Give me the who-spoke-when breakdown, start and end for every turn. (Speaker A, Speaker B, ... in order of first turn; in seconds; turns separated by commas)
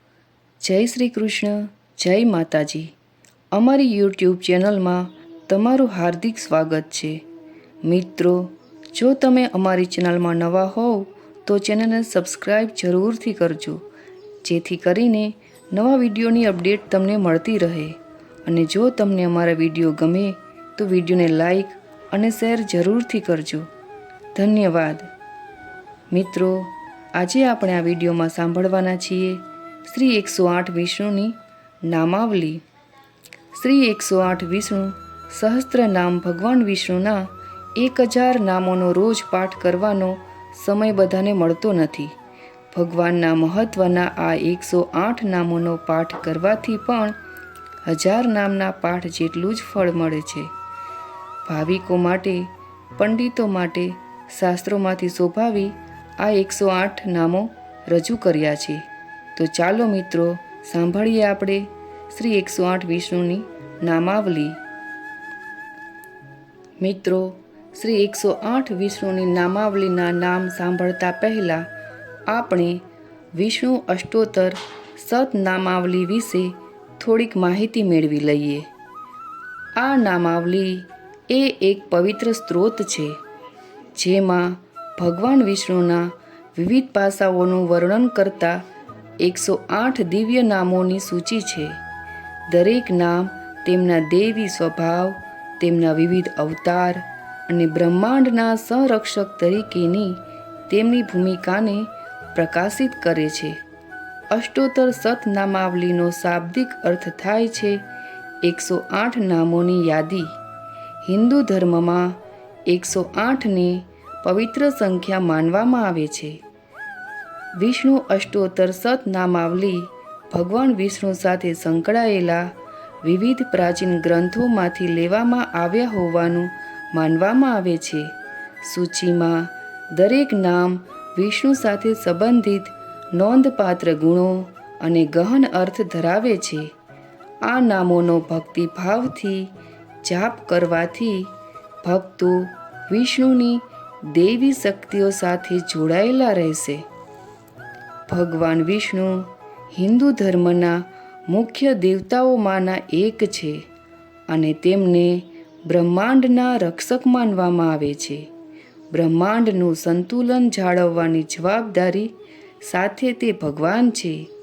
Speaker A: 0.6-2.9, Speaker A: 3.5-7.2, Speaker A: 7.8-13.8, Speaker A: 14.4-17.9, Speaker A: 18.4-23.6, Speaker A: 24.3-25.1, Speaker A: 26.1-31.4, Speaker A: 31.9-32.6, Speaker A: 33.5-42.1, Speaker A: 42.7-47.1, Speaker A: 47.9-50.5, Speaker A: 51.5-58.8, Speaker A: 59.4-64.6, Speaker A: 66.8-71.6, Speaker A: 72.3-72.8, Speaker A: 73.3-78.6, Speaker A: 79.8-83.1, Speaker A: 83.9-88.6, Speaker A: 89.2-91.8, Speaker A: 92.5-103.5, Speaker A: 104.3-107.8, Speaker A: 108.4-110.3, Speaker A: 111.0-112.1, Speaker A: 112.7-116.3, Speaker A: 117.6-122.5, Speaker A: 123.0-128.1, Speaker A: 128.6-136.7, Speaker A: 137.4-139.5, Speaker A: 140.0-141.3, Speaker A: 141.8-146.8, Speaker A: 148.1-153.6, Speaker A: 154.3-158.3, Speaker A: 158.9-162.1, Speaker A: 162.6-164.2